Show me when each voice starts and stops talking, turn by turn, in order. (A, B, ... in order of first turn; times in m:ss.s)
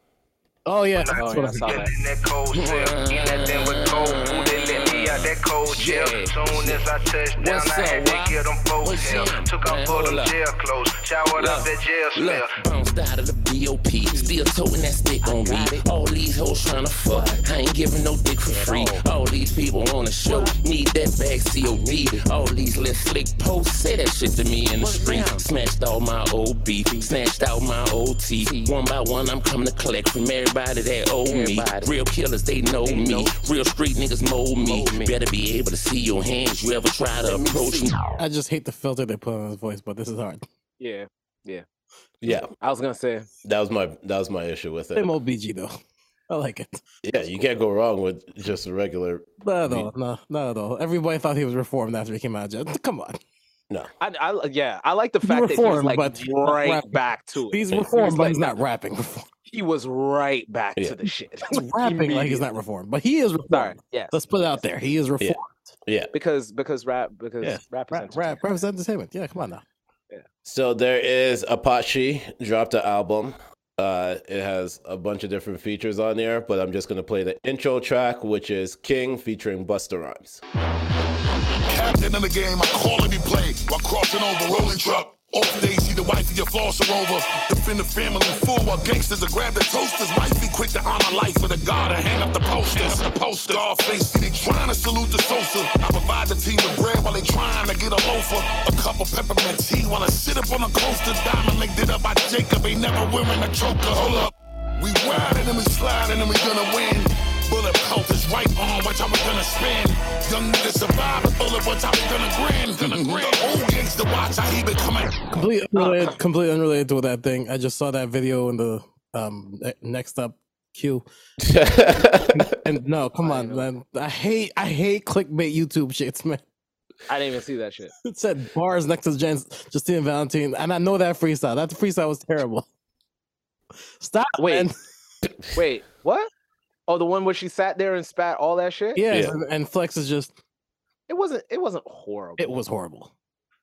0:00.7-0:01.9 A
0:01.0-0:12.6 B
0:01.1-0:01.9 C
0:02.5-0:06.8 D
0:07.4-0:10.4 D
0:11.4-0:11.7 D
0:12.5-0:38.0 D
0:15.3-0:15.7 C
0:17.1-0:17.4 C
0:18.5-0:19.0 C
0:20.3-0:20.6 C
0:24.8-0:25.3 C
0:31.3-0:31.8 C
0:32.8-0:33.4 C
0:34.6-0:35.2 C
0:37.3-0:37.7 C
0:38.2-0:40.4 A
0:40.8-0:41.6 C
0:42.2-0:42.5 E
0:42.6-0:43.3 C
0:43.4-0:45.1 E
0:45.0-0:45.7 A
0:46.3-0:46.8 A
0:47.0-0:49.9 E
0:49.4-0:53.2 A
0:54.0-0:58.6 C
0:55.2-0:57.0 A
0:57.5-0:59.3 A
0:59.5-1:02.4 C
1:01.5-1:05.7 A
1:03.5-1:04.3 C
1:05.2-1:06.1 E
1:06.1-1:08.4 C
1:07.4-1:09.6 A
1:10.4-1:20.4 E
1:21.7-1:55.2 F
1:55.3-2:01.0 A
2:01.4-2:02.6 E
2:02.4-2:06.4 A
2:03.2-2:03.7 C
2:07.1-2:07.9 C
2:08.0-2:12.7 A
2:14.0-2:14.7 A
2:14.4-2:14.7 C
2:15.6-2:16.3 C
2:16.9-2:19.0 C
2:19.0-2:20.3 A
2:21.1-2:22.6 C
2:22.4-2:23.1 A